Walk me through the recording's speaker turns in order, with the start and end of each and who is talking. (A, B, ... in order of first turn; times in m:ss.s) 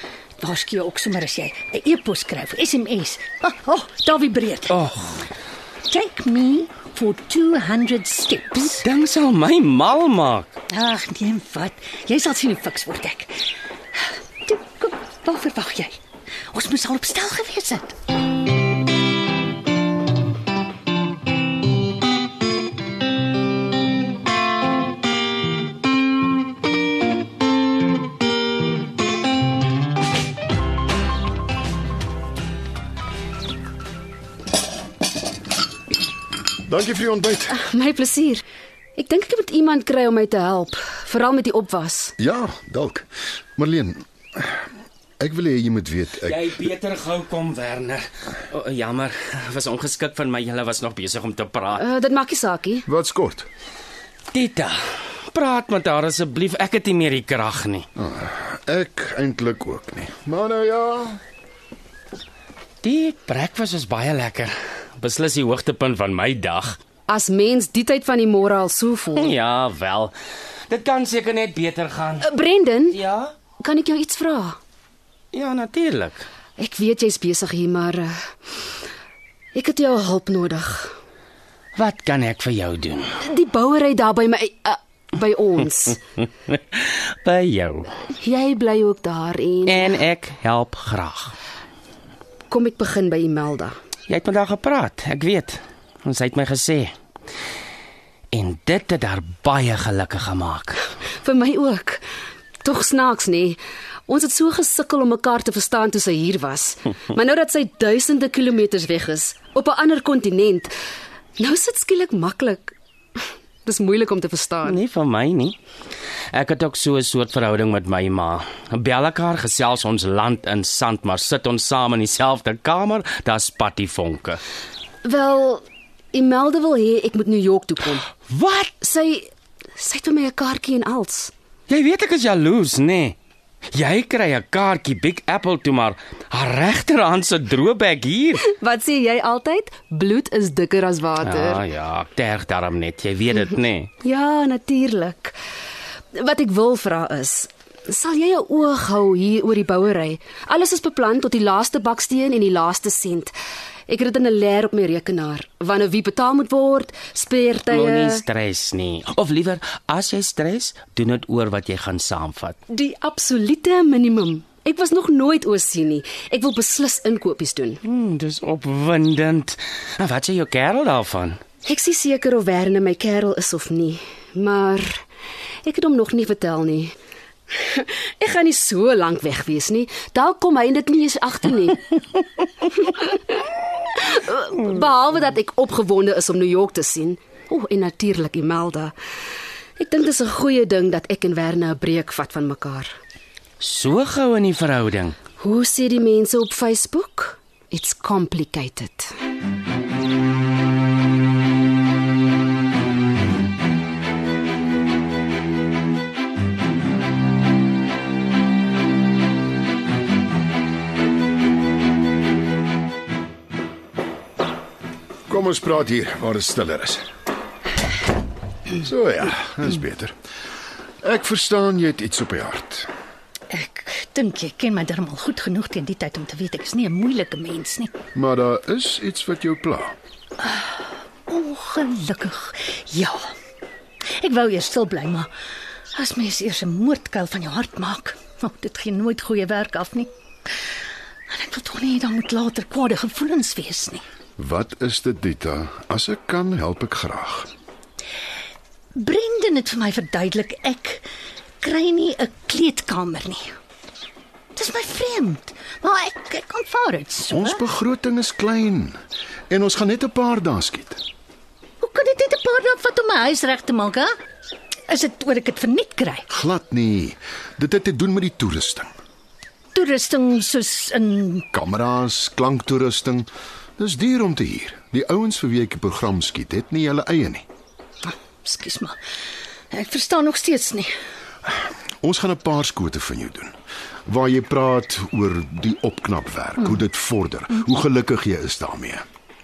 0:00.4-0:04.8 A
0:04.7-0:05.2 B
0:05.9-0:08.8 A
0:08.7-0:10.5 B
0:10.7-0:16.0 A
0:16.5-0:17.9 A
0:36.6-0:37.6 C
0:37.5-0:38.4 D
0:39.0-0:42.1 D
0:42.2-0:43.0 C
0:43.6-0:44.5 C
0:45.2-0:46.5 C
0:46.2-0:51.8 B
0:51.8-0:52.8 D
0:52.9-0:53.4 C
0:54.3-0:57.8 B
0:58.0-1:01.2 C
1:02.8-1:06.8 B
1:07.1-1:09.3 D
1:09.2-1:10.1 B
1:10.7-1:12.3 B
1:12.2-1:13.0 D
1:12.9-1:13.3 B
1:13.6-1:14.6 D
1:15.3-1:16.3 B
1:16.6-1:18.2 D
1:19.5-1:21.0 D
1:21.8-1:23.1 B
1:23.2-1:26.0 D
1:26.5-1:27.9 B
1:28.2-1:29.9 D
1:29.6-1:31.3 B
1:32.5-1:33.7 D
1:34.1-1:36.9 B
1:38.3-1:40.8 B
1:41.2-1:42.0 D
1:42.6-1:50.7 D
1:51.4-1:52.7 D
1:53.6-1:54.8 D
1:54.6-1:55.6 B
1:56.3-2:04.4 B
2:05.0-2:08.1 D
2:08.3-2:08.7 B
2:08.8-2:11.3 D
2:11.7-2:13.2 B
2:13.7-2:18.4 B
2:18.4-2:21.6 D
2:21.2-2:23.9 B
2:24.0-2:25.4 D
2:26.1-2:33.3 D
2:33.9-2:38.2 D
2:37.7-2:42.6 B
2:42.7-2:47.8 D
2:47.8-2:51.4 B
2:51.6-2:55.0 D
2:55.6-2:56.9 D
2:57.6-3:01.8 D
3:02.7-3:08.9 D
3:09.8-3:12.9 D
3:13.6-3:15.1 B
3:15.4-3:19.1 D
3:35.3-3:37.0 C
3:38.7-3:40.1 C
3:41.0-3:42.9 C
3:43.5-3:47.9 A
3:48.1-3:50.0 C
3:50.4-3:53.3 A
3:54.2-3:55.3 A
3:55.9-4:00.1 A
4:01.3-4:04.0 A
4:04.4-4:07.5 C
4:09.0-4:11.0 A
4:11.6-4:13.5 A
4:14.5-4:17.6 A
4:17.3-4:19.0 C
4:19.5-4:21.0 C
4:21.8-4:24.1 A
4:24.9-4:26.2 A
4:26.3-4:28.9 C
4:29.7-4:31.4 A
4:31.5-4:37.4 C
4:38.0-4:39.0 A
4:39.7-4:40.9 A
4:42.0-4:43.5 C
4:44.1-4:49.0 C